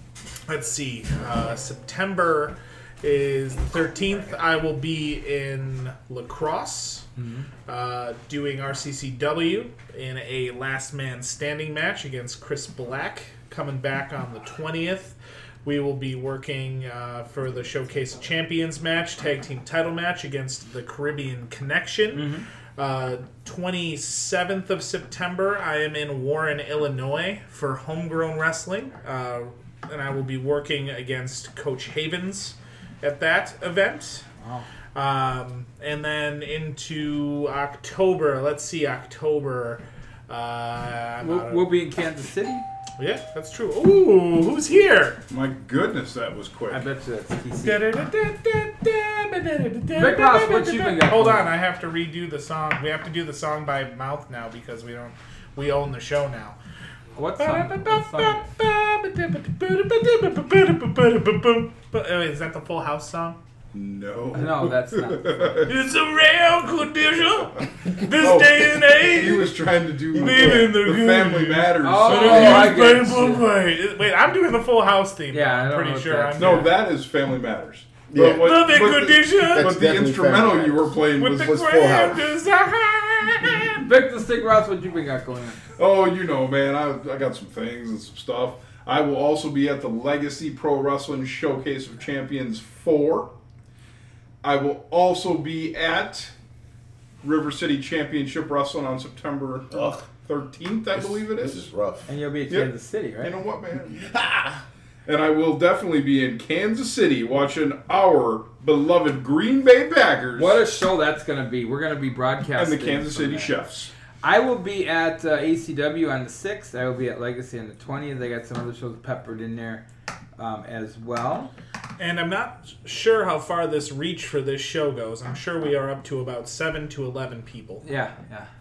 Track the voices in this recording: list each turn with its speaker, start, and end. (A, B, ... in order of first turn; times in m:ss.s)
0:00.5-0:07.1 A
0:07.2-0:07.5 B
0:07.7-0:34.2 A
0:22.1-0:22.4 B
0:34.4-0:34.7 B
0:35.0-0:41.7 A
0:41.2-0:42.6 B
0:43.0-0:45.2 A
0:45.3-0:46.8 C
0:46.7-0:47.8 B
0:47.6-0:56.6 A
0:50.0-0:51.6 B
0:57.2-0:58.5 B
0:57.4-1:03.4 A
1:03.7-1:05.7 C
1:04.3-1:05.7 B
1:05.6-1:09.6 A
1:08.2-1:12.8 C
1:10.2-1:10.7 D
1:10.2-1:16.8 A
1:11.8-1:13.4 B
1:15.3-1:16.7 B
1:16.4-1:21.6 C
1:18.1-1:22.2 D
1:18.4-1:19.8 A
1:21.2-1:23.8 A
1:23.8-1:25.6 B
1:25.8-1:33.3 C
1:34.4-1:36.3 C
1:37.2-1:41.7 C
1:39.7-1:40.1 D
1:40.9-1:42.1 D
1:42.1-1:43.4 B
1:43.2-1:44.1 C
1:44.0-1:44.6 D
1:45.1-1:50.6 C
1:50.4-1:53.6 B
1:52.6-1:53.9 C
1:54.2-1:59.8 B
2:00.4-2:01.5 B
2:02.0-2:07.8 A
2:07.8-2:08.5 B